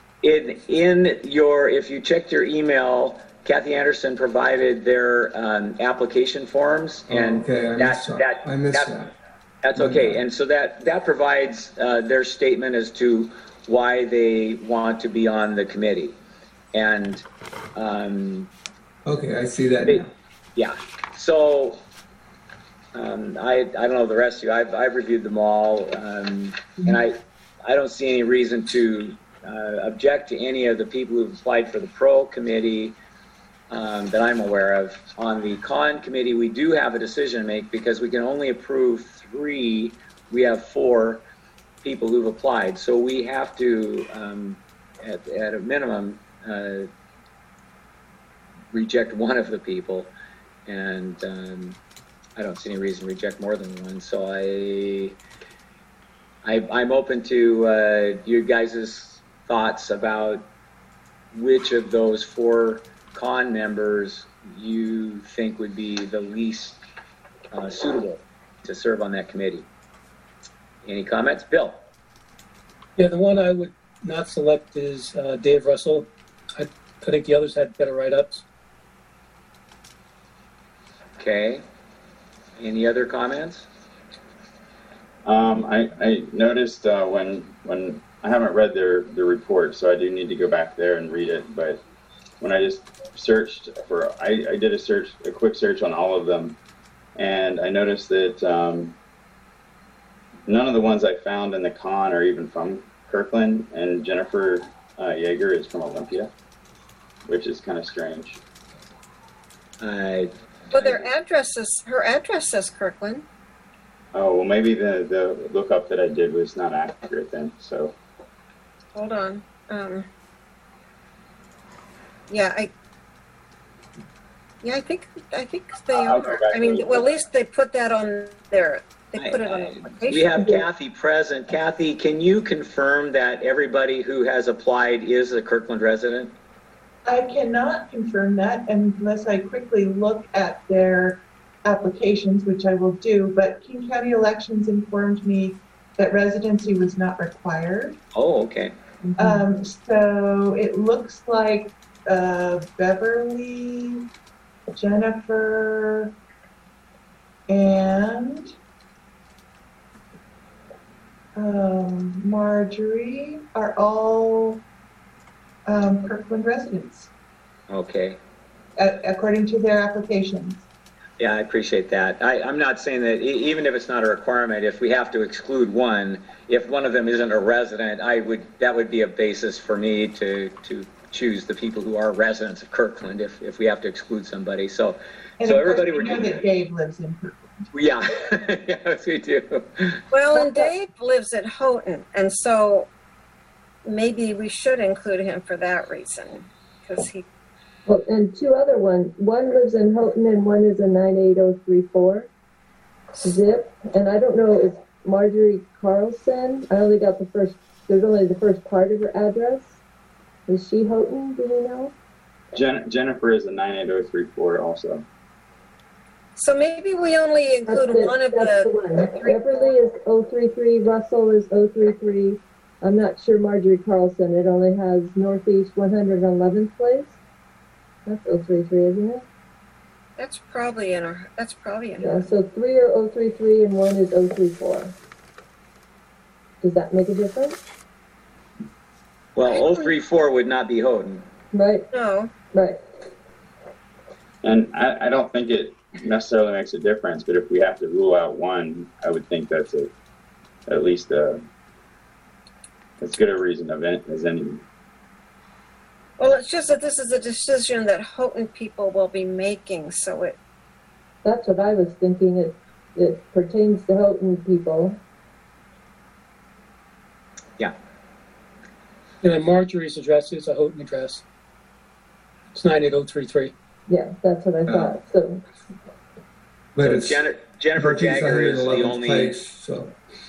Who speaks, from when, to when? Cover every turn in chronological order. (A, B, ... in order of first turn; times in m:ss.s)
0:00.2-0:08.9 A
0:07.1-0:09.1 B
0:09.6-0:16.1 A
0:09.7-0:10.2 B
0:16.7-0:17.2 A
0:17.8-0:18.5 A
0:19.0-0:20.1 B
0:20.6-0:21.8 A
0:22.9-0:27.1 A
0:27.6-0:33.0 A
0:33.7-0:41.2 A
0:41.8-0:46.9 A
0:48.7-0:50.1 A
0:50.7-0:51.8 A
0:52.4-0:55.2 A
0:56.4-1:00.5 A
1:01.3-1:06.8 A
1:07.5-1:09.6 A
1:10.8-1:11.8 A
1:13.0-1:18.4 C
1:21.2-1:21.6 A
1:22.6-1:23.7 A
1:25.2-1:31.8 D
1:32.4-1:36.6 D
1:37.2-1:38.9 D
1:40.5-1:46.3 D
1:47.3-1:48.4 D
1:49.8-1:51.1 A
1:50.7-1:53.2 E
1:54.1-1:57.9 D
1:58.9-2:00.0 E
2:02.3-2:02.7 E
2:04.6-2:10.6 E
2:05.9-2:07.1 D
2:09.2-2:16.3 A
2:17.0-2:28.0 F
2:28.1-2:28.7 A
2:29.2-2:34.1 F
2:34.7-2:36.1 F
2:37.5-2:38.5 F
2:41.4-2:44.6 F
2:45.6-2:47.1 F
2:47.7-2:48.2 A
2:48.8-2:50.6 F
2:51.2-3:06.4 A
3:05.4-3:07.6 F
3:07.7-3:10.0 A
3:10.1-3:12.9 E
3:10.3-3:10.7 G
3:13.8-3:17.2 E
3:17.8-3:22.3 G
3:23.2-3:29.8 G
3:30.5-3:31.9 G
3:32.5-3:35.0 D
3:36.4-3:39.6 E
3:37.6-3:47.2 G
3:48.0-3:49.2 G
3:50.2-3:52.3 E
3:52.0-3:54.9 G
3:56.6-3:57.6 G
3:59.4-4:01.2 A
3:59.5-3:59.8 E
4:01.5-4:01.9 G
4:01.9-4:02.4 E
4:02.5-4:02.8 G
4:04.4-4:09.9 D
4:10.7-4:11.4 D
4:13.0-4:14.6 D
4:16.2-4:20.4 E
4:21.2-4:25.0 G
4:29.2-4:31.2 C
4:32.5-4:33.5 C
4:33.9-4:35.4 G
4:34.6-4:35.0 B
4:36.7-4:39.9 B
4:36.8-4:39.4 A